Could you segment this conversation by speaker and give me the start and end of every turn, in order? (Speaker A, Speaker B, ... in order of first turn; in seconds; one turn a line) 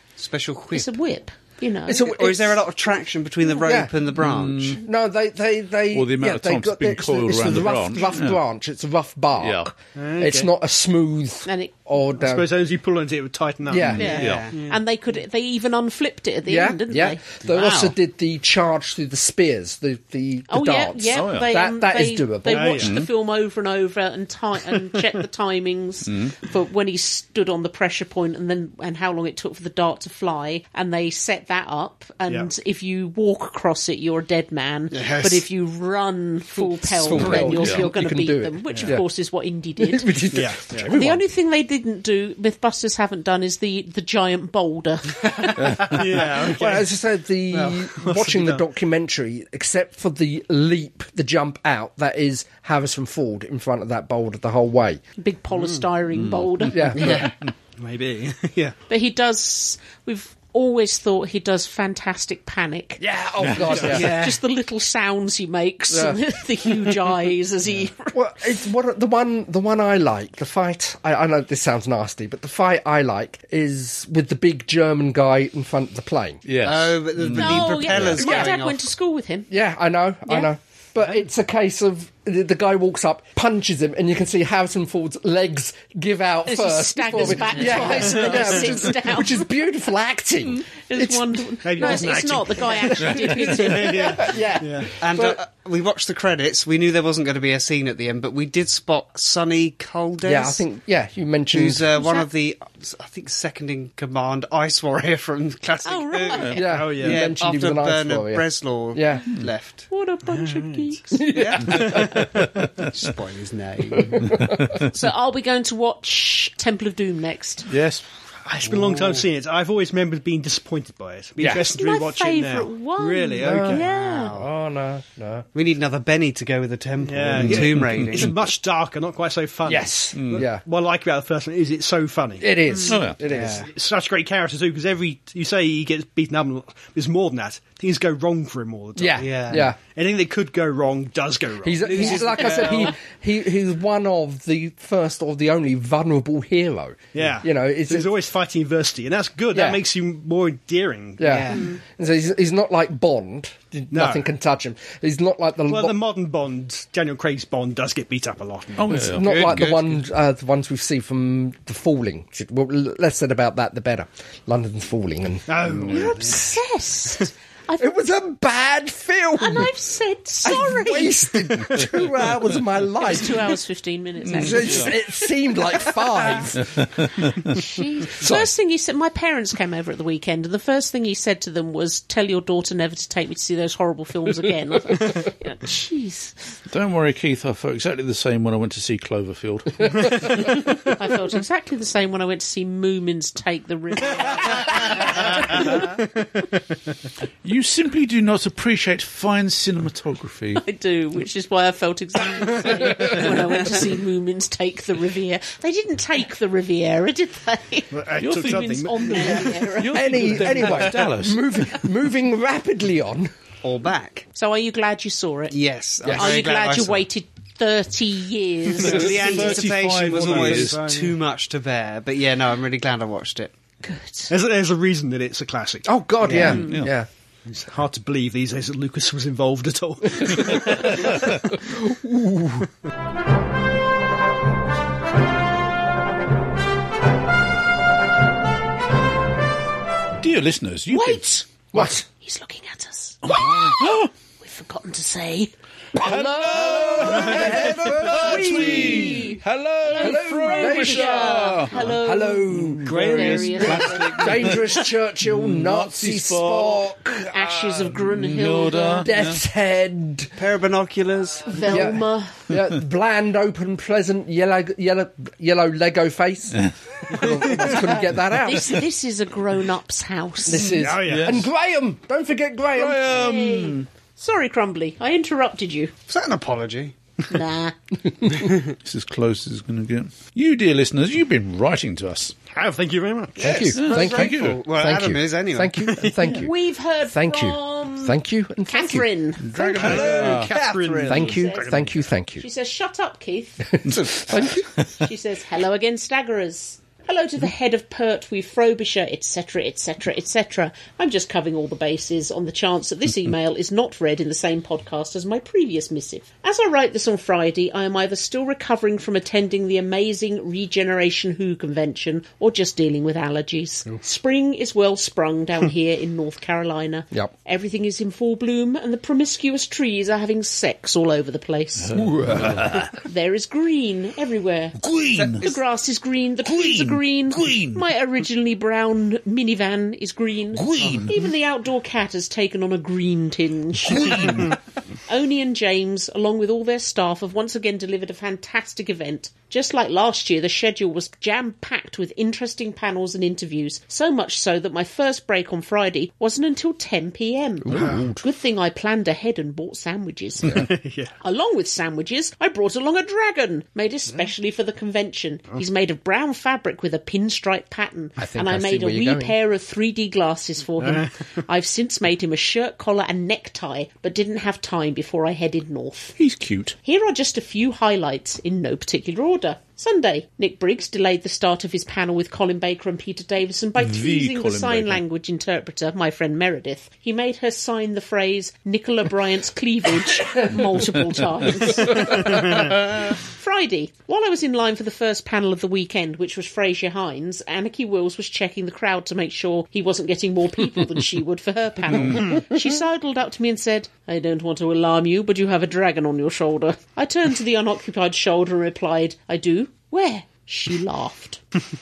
Speaker A: 0.2-0.9
Speaker B: 0.7-2.1
Speaker C: 1.9-2.6
Speaker A: 2.0-4.8
Speaker C: 3.6-3.9
Speaker D: 4.2-4.8
Speaker C: 4.8-12.5
Speaker D: 5.9-8.4
Speaker D: 9.4-9.7
Speaker E: 9.9-10.5
Speaker B: 11.4-11.7
Speaker E: 12.2-14.8
Speaker C: 13.7-14.1
Speaker D: 13.8-14.5
Speaker B: 14.0-17.2
Speaker A: 14.0-14.6
Speaker C: 16.4-22.9
Speaker A: 17.4-17.9
Speaker B: 20.5-40.2
Speaker D: 21.1-21.5
Speaker E: 22.5-23.0
Speaker D: 26.1-26.3
Speaker A: 34.9-35.4
Speaker C: 36.8-39.0
Speaker D: 37.2-37.9
Speaker E: 38.7-39.0
Speaker C: 39.8-41.2
Speaker E: 40.3-40.9
Speaker B: 40.9-45.8
Speaker E: 45.8-46.9
Speaker C: 46.4-55.0
Speaker A: 47.5-47.8
Speaker E: 48.0-48.6
Speaker B: 55.2-57.3
Speaker E: 55.5-55.8
Speaker D: 56.1-57.3
Speaker C: 56.7-57.2
Speaker A: 56.9-57.3
Speaker E: 57.8-58.8
Speaker B: 58.9-68.2
Speaker C: 63.0-64.1
Speaker D: 63.4-63.9
Speaker A: 63.9-64.4
Speaker C: 65.9-66.2
Speaker C: 68.1-76.4
Speaker D: 76.4-78.4
Speaker A: 76.6-78.9
Speaker B: 77.3-79.5
Speaker C: 78.2-78.5
Speaker C: 79.5-92.2
Speaker B: 86.4-89.5
Speaker B: 90.5-94.2
Speaker E: 91.6-95.0
Speaker C: 92.8-95.4
Speaker A: 95.0-100.6
Speaker C: 100.2-101.9
Speaker A: 101.5-109.9
Speaker B: 101.9-102.2
Speaker B: 105.8-106.6
Speaker C: 106.5-109.3
Speaker E: 106.6-107.3
Speaker B: 109.9-111.2
Speaker E: 110.3-112.3
Speaker C: 111.2-112.0
Speaker A: 111.3-112.2
Speaker D: 111.9-112.9
Speaker A: 112.8-114.3
Speaker C: 113.9-114.6
Speaker D: 114.2-114.9
Speaker B: 114.9-117.7
Speaker D: 117.7-118.0
Speaker E: 118.4-123.9
Speaker A: 118.7-119.2
Speaker C: 121.4-121.7
Speaker B: 121.6-124.3
Speaker C: 123.4-123.8
Speaker A: 123.7-124.5
Speaker C: 124.3-125.4
Speaker A: 125.5-128.4
Speaker E: 127.0-132.6
Speaker D: 127.4-128.3
Speaker C: 129.6-130.6
Speaker D: 130.2-130.4
Speaker C: 132.4-133.7
Speaker B: 132.7-133.0
Speaker D: 132.9-133.2
Speaker A: 133.3-133.7
Speaker E: 133.3-142.9
Speaker C: 138.9-139.8
Speaker A: 139.2-139.7
Speaker C: 141.6-148.1
Speaker A: 141.8-142.9
Speaker E: 147.1-151.4
Speaker C: 149.5-149.8
Speaker C: 151.2-155.9
Speaker A: 151.2-151.6
Speaker E: 153.9-154.3
Speaker E: 155.7-159.1
Speaker D: 158.8-159.8
Speaker C: 158.9-166.1
Speaker A: 159.2-159.9
Speaker E: 165.5-166.6
Speaker B: 165.9-167.9
Speaker C: 167.8-169.7
Speaker B: 169.3-171.3
Speaker C: 170.4-173.5
Speaker B: 173.0-175.1
Speaker D: 174.2-174.9
Speaker C: 174.3-176.8
Speaker B: 175.9-176.4
Speaker D: 176.7-177.5
Speaker B: 177.4-186.6
Speaker C: 178.1-178.5
Speaker D: 186.7-190.6
Speaker B: 190.8-195.9
Speaker E: 195.8-196.6
Speaker D: 197.4-200.6
Speaker B: 200.6-210.2
Speaker E: 207.9-209.6
Speaker D: 208.2-211.8
Speaker C: 209.8-213.3
Speaker A: 213.6-214.3
Speaker B: 214.3-215.6
Speaker A: 215.5-217.1
Speaker C: 216.0-216.4
Speaker B: 216.1-219.1
Speaker A: 218.8-223.5
Speaker E: 218.8-221.1
Speaker D: 218.9-220.8
Speaker B: 223.8-224.3
Speaker E: 224.3-226.5
Speaker C: 225.8-227.1
Speaker A: 226.2-226.6
Speaker B: 226.5-226.8
Speaker D: 226.5-226.9
Speaker E: 227.5-231.5
Speaker C: 231.6-232.7
Speaker D: 240.2-241.2
Speaker B: 240.9-245.5
Speaker C: 241.7-242.1
Speaker D: 243.2-244.1
Speaker C: 245.9-249.4
Speaker D: 246.0-251.8
Speaker E: 247.0-248.1
Speaker B: 248.2-252.5
Speaker C: 249.9-258.0
Speaker D: 252.5-256.9
Speaker E: 252.8-254.2
Speaker B: 253.0-254.3
Speaker B: 257.3-259.1
Speaker D: 258.0-259.4
Speaker C: 259.0-260.3
Speaker A: 260.4-261.6
Speaker B: 261.5-262.4
Speaker C: 261.7-268.8
Speaker D: 266.6-267.4
Speaker E: 267.4-267.7
Speaker B: 268.3-270.7
Speaker C: 270.4-273.2
Speaker D: 270.6-271.4
Speaker E: 270.8-271.4
Speaker D: 272.7-273.8
Speaker B: 273.1-275.9
Speaker A: 276.1-276.9
Speaker B: 277.3-277.7
Speaker D: 278.8-282.4
Speaker E: 282.5-283.6
Speaker C: 283.4-286.5
Speaker A: 283.4-286.0
Speaker D: 283.6-284.6
Speaker B: 286.2-289.8
Speaker C: 287.1-289.1
Speaker D: 289.4-290.6
Speaker A: 289.7-291.4
Speaker E: 289.7-291.9
Speaker C: 291.1-292.4
Speaker B: 291.4-291.7
Speaker B: 292.4-293.8
Speaker C: 293.7-294.9
Speaker D: 293.9-294.7
Speaker B: 294.9-322.1
Speaker D: 321.8-323.0
Speaker C: 321.9-322.7
Speaker B: 323.0-324.8
Speaker D: 324.8-325.4
Speaker A: 325.1-325.6
Speaker B: 325.4-334.5
Speaker D: 326.4-327.8
Speaker D: 330.5-331.1
Speaker D: 333.9-334.6
Speaker B: 335.1-350.7
Speaker C: 347.6-348.2
Speaker D: 347.7-348.0
Speaker E: 347.8-348.1
Speaker E: 350.5-351.1
Speaker B: 351.2-366.1
Speaker C: 358.2-359.4
Speaker E: 360.8-361.3
Speaker D: 366.2-366.8
Speaker B: 366.8-401.4
Speaker D: 373.8-375.0
Speaker D: 380.7-381.1
Speaker E: 382.2-382.7
Speaker D: 391.9-392.3